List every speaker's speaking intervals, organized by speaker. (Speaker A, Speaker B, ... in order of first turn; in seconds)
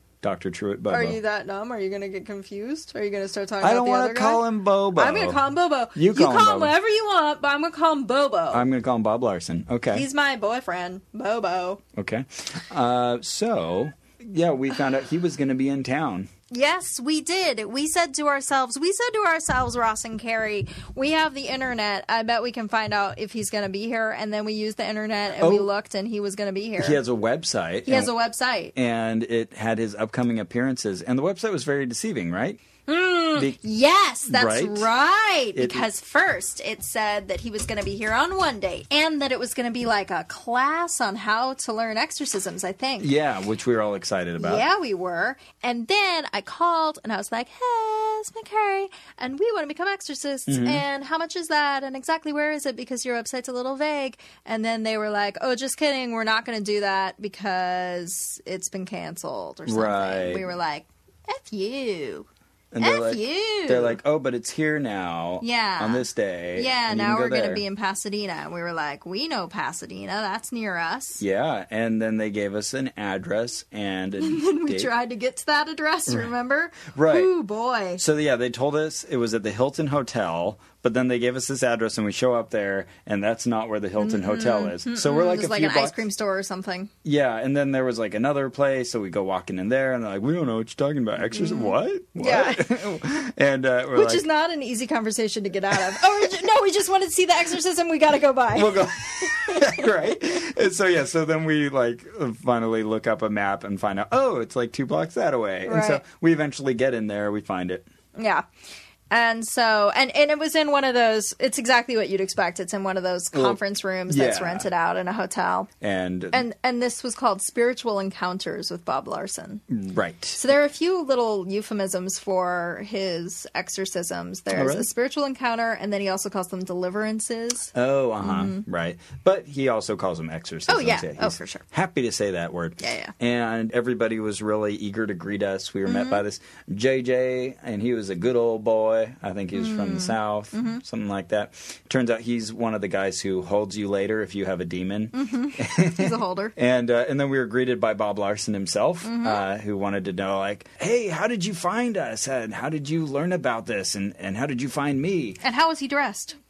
Speaker A: 0.2-1.2, 3.6-5.4, 6.0-6.8, 8.5-10.1, 12.0-16.3, 25.4-25.7, 26.8-28.1, 28.8-32.6, 34.3-34.9, 35.6-35.9, 43.0-44.6, 50.5-50.8, 59.7-60.5, 62.7-67.6, 71.2-74.9, 77.0-77.3, 78.0-86.0, 87.0-94.2, 95.7-96.3, 98.5-107.9, 113.3-114.7, 115.8-116.4, 119.7-120.4, 124.5-124.9, 127.7-155.4
Speaker B: 0.9-8.7, 9.9-11.8, 16.5-27.0, 27.9-28.7, 32.9-43.1, 44.4-62.3, 62.8-64.0, 65.4-71.2, 74.2-78.0, 84.0-86.9, 91.3-92.8, 93.9-99.9, 105.7-106.0, 108.2-108.5, 109.1-115.7, 116.3-119.6, 120.3-128.7, 130.7-131.7, 132.8-133.1, 135.8-136.2, 139.5-140.8, 145.1-146.5, 149.0-149.4, 155.4-156.4